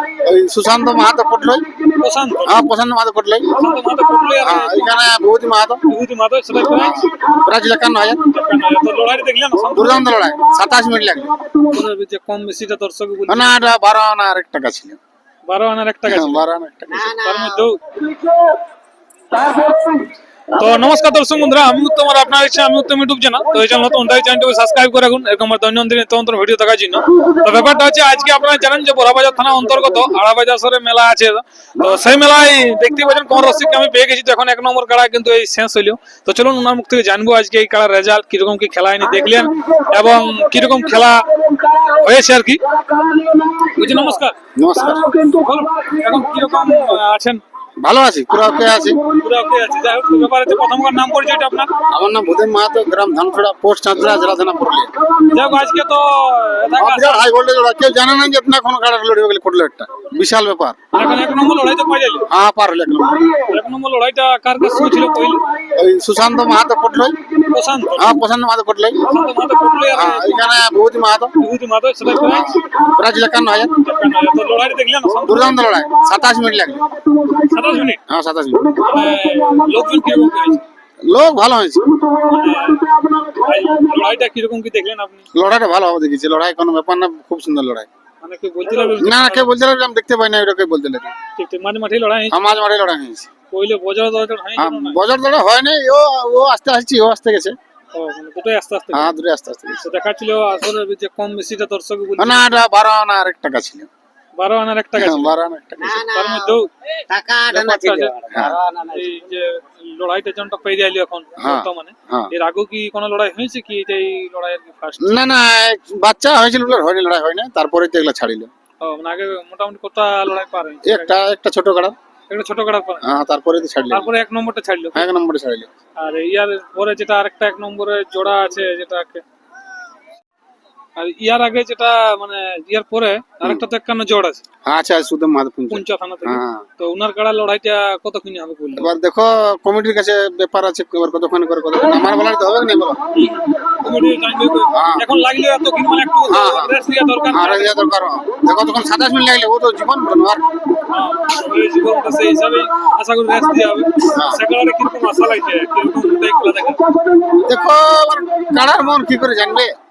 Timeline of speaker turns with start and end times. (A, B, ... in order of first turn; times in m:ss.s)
0:00.2-0:01.7 A
0:02.0-0:02.6 B
0:02.4-0:03.5 A
0:03.5-0:05.1 B
0:04.4-0:05.8 A
0:05.9-0:06.9 B
0:06.7-0:08.2 A
0:08.3-0:10.0 B
0:09.7-0:11.4 A
0:11.7-0:13.6 B
0:13.3-0:15.0 A
0:15.5-0:16.4 B
0:16.1-0:17.2 A
0:16.9-0:17.6 C
0:17.1-0:17.8 B
0:20.5-0:42.6 B
0:43.6-0:44.4 B
0:44.6-0:45.2 A
0:45.2-0:47.4 B
0:47.8-0:49.0 A
0:49.1-0:51.7 B
0:51.9-0:54.9 A
0:55.2-0:57.3 B
0:56.8-1:00.8 A
1:00.9-1:02.3 B
1:02.3-1:03.2 A
1:03.4-1:05.4 B
1:05.7-1:07.2 A
1:07.5-1:08.1 B
1:08.0-1:09.0 A
1:09.0-1:10.5 B
1:09.9-1:11.3 A
1:11.4-1:12.4 B
1:12.1-1:13.7 A
1:13.8-1:15.6 B
1:15.2-1:16.9 A
1:17.4-1:18.0 B
1:18.1-1:18.8 A
1:18.8-1:20.6 B
1:21.1-1:21.9 A
1:22.2-1:25.2 B
1:25.3-1:27.9 A
1:28.2-1:29.5 B
1:29.0-1:31.1 A
1:31.4-1:32.4 B
1:32.3-1:33.3 A
1:33.5-1:35.0 B
1:34.6-1:37.5 A
1:37.9-1:39.1 B
1:38.9-1:39.8 A
1:39.8-1:42.6 B
1:42.2-1:43.9 A
1:44.4-1:45.3 B
1:45.0-1:46.0 A
1:45.8-1:46.6 C
1:46.0-1:46.7 B
1:47.1-1:49.1 C
1:47.5-1:48.1 B
1:48.3-1:48.6 A
1:48.9-1:55.2 B
1:51.4-1:52.3 A
1:55.0-1:58.5 A
1:58.8-2:01.2 B
2:00.8-2:01.9 A
2:02.3-2:03.0 B
2:03.0-2:04.1 A
2:03.9-2:05.0 B
2:04.9-2:05.7 A
2:06.0-2:09.2 B
2:11.0-2:14.4 B
2:14.6-2:16.6 A
2:15.7-2:18.9 B
2:18.8-2:23.0 A
2:23.1-2:27.8 B
2:24.7-2:25.0 A
2:26.3-2:26.8 A
2:27.3-2:30.5 A
2:30.9-2:36.8 B
2:34.1-2:34.4 A
2:37.3-2:39.7 A